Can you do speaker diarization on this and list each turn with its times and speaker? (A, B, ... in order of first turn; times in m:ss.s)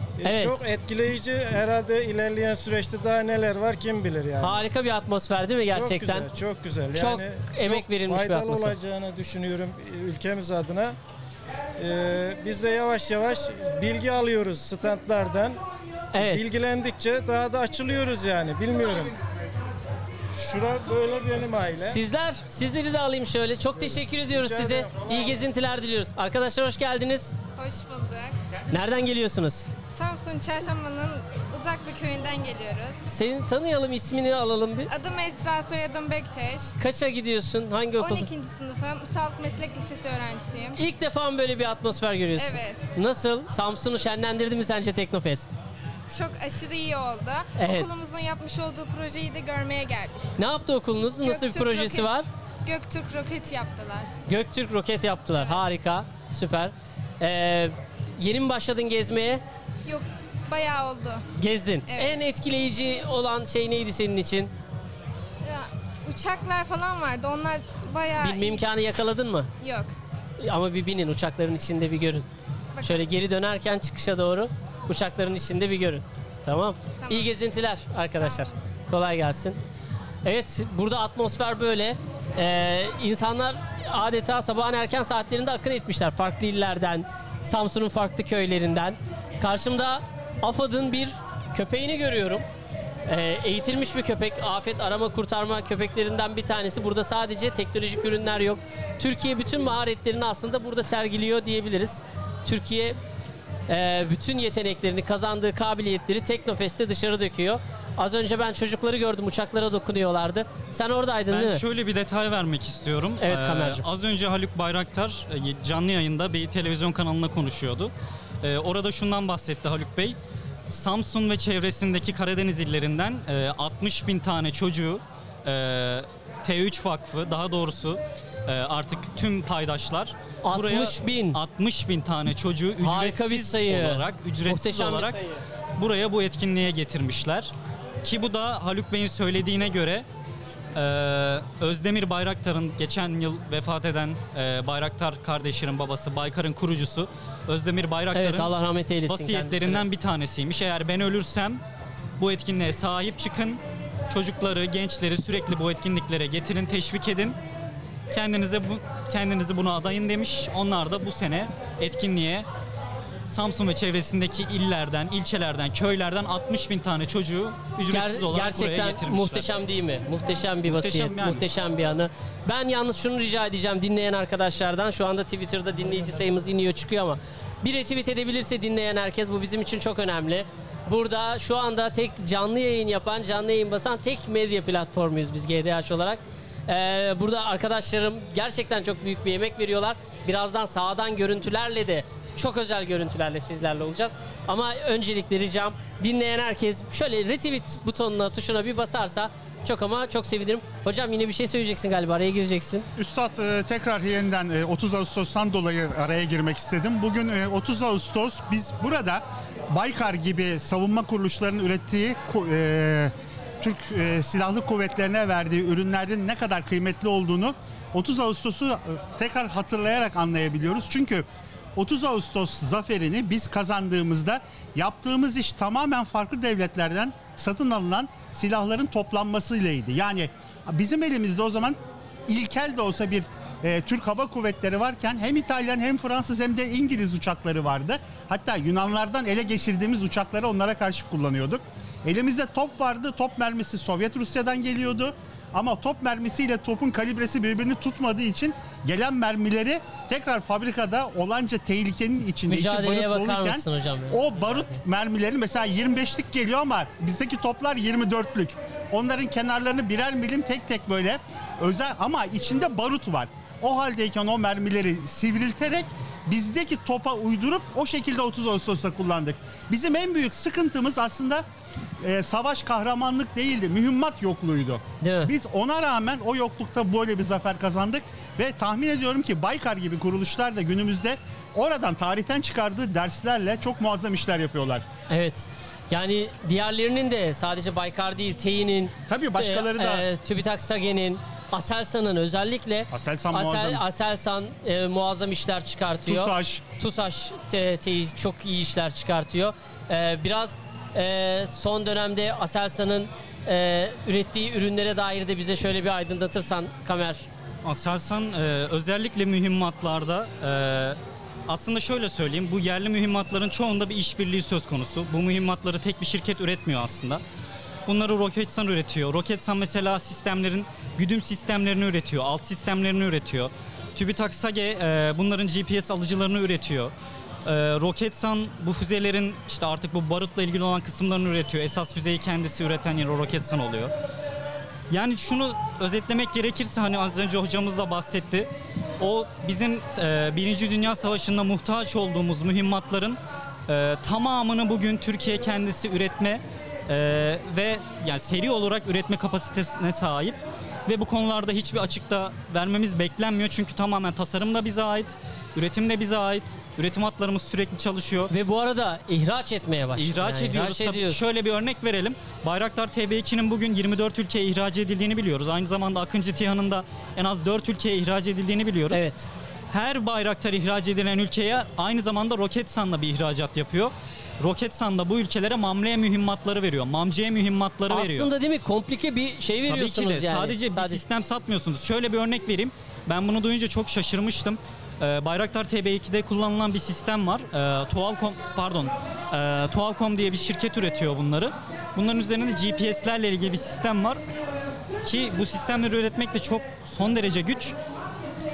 0:00.2-0:04.6 A
0:00.2-0:00.6 B
0:04.4-0:06.3 B
0:05.7-0:11.0 A
0:06.9-0:08.7 B
0:11.8-0:15.6 A
0:16.1-0:16.4 B
0:16.1-0:19.5 A
0:20.3-0:22.0 A
0:21.8-0:27.3 B
0:23.7-0:25.6 A
0:27.6-0:28.3 C
0:28.7-0:29.7 B
0:29.9-0:33.0 C
0:33.1-0:34.9 B
0:34.9-0:36.7 C
0:36.8-0:38.3 B
0:38.0-0:40.8 C
0:40.8-0:45.5 B
0:42.4-0:42.9 C
0:46.1-0:50.3 C
0:47.6-0:47.9 B
0:50.4-0:52.2 B
0:51.2-0:54.1 C
0:54.3-0:59.4 B
0:59.8-1:01.2 C
1:01.4-1:04.5 B
1:01.9-1:02.2 C
1:05.4-1:08.6 C
1:08.2-1:09.5 B
1:09.6-1:09.9 C
1:10.4-1:12.3 B
1:12.8-1:13.0 C
1:12.8-1:19.6 B
1:17.0-1:17.4 C
1:18.2-1:18.5 C
1:20.2-1:32.4 B
1:33.1-1:43.0 B
1:43.7-1:51.6 B
1:51.3-2:00.2 D
1:53.2-1:53.8 B
2:00.7-2:15.2 D
2:10.4-2:11.4 B
2:12.8-2:15.4 B
2:15.8-2:20.0 D
2:20.8-2:28.5 D
2:28.1-2:29.8 B
2:29.1-2:31.6 D
2:32.2-2:37.4 D
2:38.1-2:42.4 D
2:43.3-2:49.5 D
2:47.9-3:22.9 B
2:50.6-2:51.4 D
3:23.0-4:31.4 E
4:12.5-4:14.8 B
4:32.0-4:44.8 E
4:35.0-4:35.3 B
4:45.1-5:07.3 B
4:49.1-4:50.0 E
4:52.9-4:53.8 E
4:56.0-4:56.6 E
5:07.6-5:17.2 D
5:17.8-5:26.9 D
5:27.4-5:33.9 D
5:34.9-5:38.5 D
5:39.0-5:58.3 D
5:58.3-6:01.2 B
6:00.0-6:09.0 D
6:08.9-6:09.3 B
6:09.7-6:18.3 D
6:17.9-6:21.0 B
6:19.7-6:34.2 D
6:35.0-6:37.8 D